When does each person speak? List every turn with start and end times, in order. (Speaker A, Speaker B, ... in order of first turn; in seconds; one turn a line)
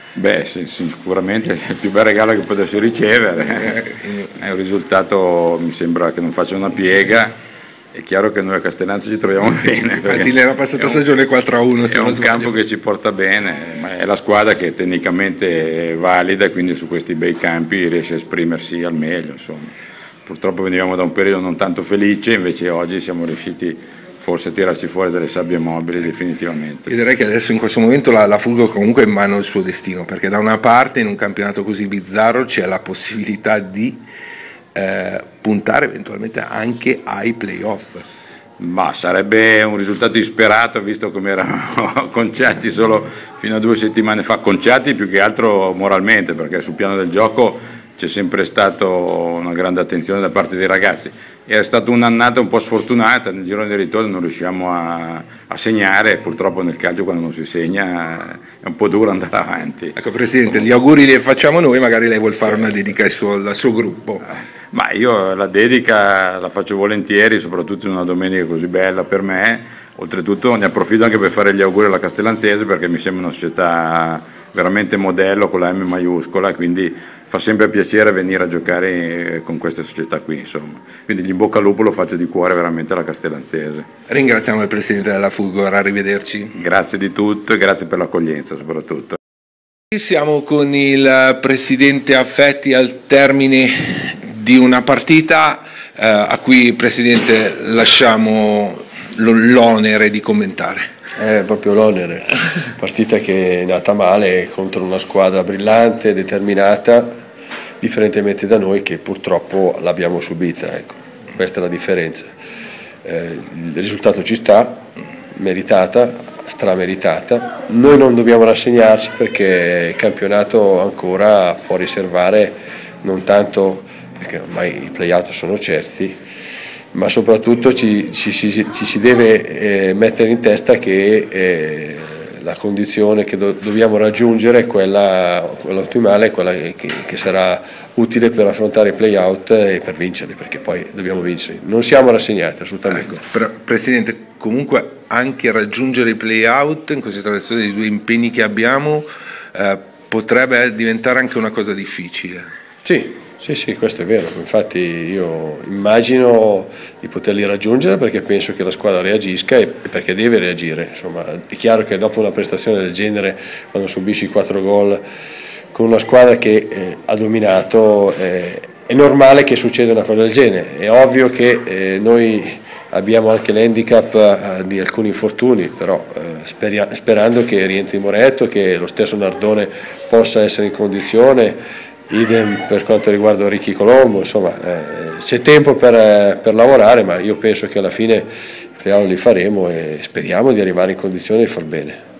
Speaker A: 0.1-7.4
Speaker B: 3.6-4.3
Speaker A: 7.9-11.1
Speaker B: 10.0-12.5
Speaker A: 11.9-19.7
Speaker A: 20.2-26.9
Speaker B: 26.9-34.0
Speaker B: 34.7-38.0
Speaker A: 38.6-60.6
Speaker B: 60.0-64.2
Speaker A: 64.7-83.9
Speaker B: 84.1-86.5
Speaker A: 86.5-89.2
Speaker B: 89.9-100.8
Speaker C: 101.2-107.1
Speaker C: 107.8-112.3
Speaker C: 113.0-126.2
Speaker C: 126.9-143.2
Speaker B: 142.9-152.5
Speaker C: 152.8-165.0
Speaker C: 165.7-188.3
Speaker C: 188.8-192.0